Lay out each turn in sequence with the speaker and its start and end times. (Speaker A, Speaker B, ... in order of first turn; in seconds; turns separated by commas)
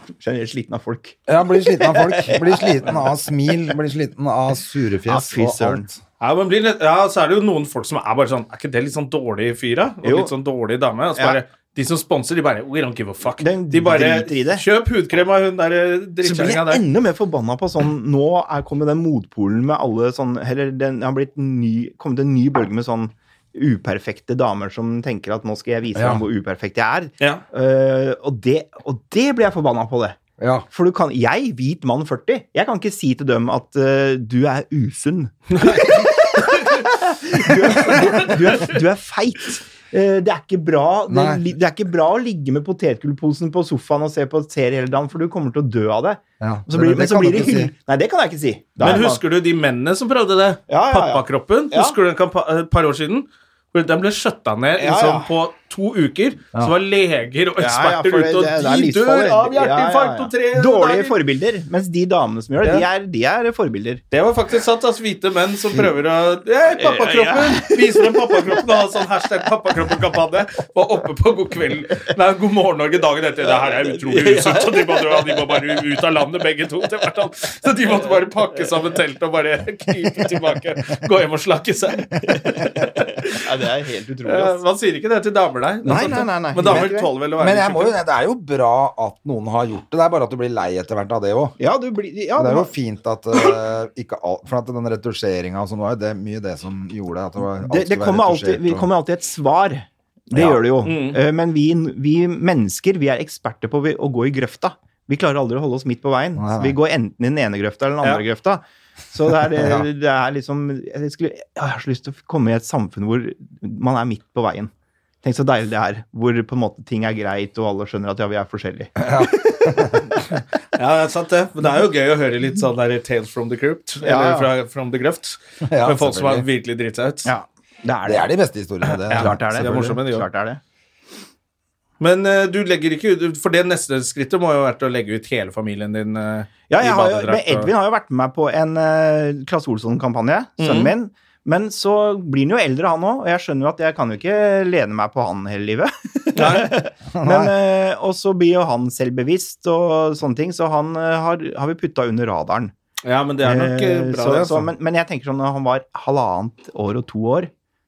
Speaker A: 0.2-3.0, Speaker B: 1.3-5.9, Speaker A: 5.1-5.9, Speaker C: 6.2-16.8, Speaker A: 10.0-10.3, Speaker A: 13.4-14.6, Speaker A: 16.2-30.2, Speaker B: 25.9-26.2, Speaker B: 30.4-30.7, Speaker A: 30.7-49.2, Speaker C: 35.6-36.6, Speaker C: 37.9-38.6, Speaker B: 41.1-41.5, Speaker B: 46.4-47.7, Speaker C: 48.8-61.1, Speaker A: 50.7-52.0, Speaker A: 54.8-55.3, Speaker A: 57.6-64.0, Speaker C: 64.1-83.5, Speaker A: 66.8-68.3, Speaker A: 73.6-75.5, Speaker A: 82.3-84.6, Speaker C: 84.2-88.0, Speaker B: 85.8-91.6, Speaker A: 85.9-87.1, Speaker A: 91.6-92.7, Speaker B: 92.4-98.9, Speaker A: 97.7-114.7, Speaker B: 100.3-100.6, Speaker C: 100.8-101.2, Speaker B: 106.4-106.8, Speaker B: 109.5-109.9, Speaker A: 115.2-120.0, Speaker B: 119.0-120.1, Speaker C: 120.8-127.3, Speaker A: 124.0-124.5, Speaker B: 125.7-126.5, Speaker A: 127.2-128.3, Speaker B: 128.1-129.8, Speaker C: 129.1-130.3, Speaker A: 129.1-130.6, Speaker C: 132.0-137.7, Speaker A: 136.7-152.7, Speaker C: 140.6-140.9, Speaker C: 146.4-146.7, Speaker B: 147.1-147.5, Speaker C: 153.0-154.7, Speaker A: 153.4-157.5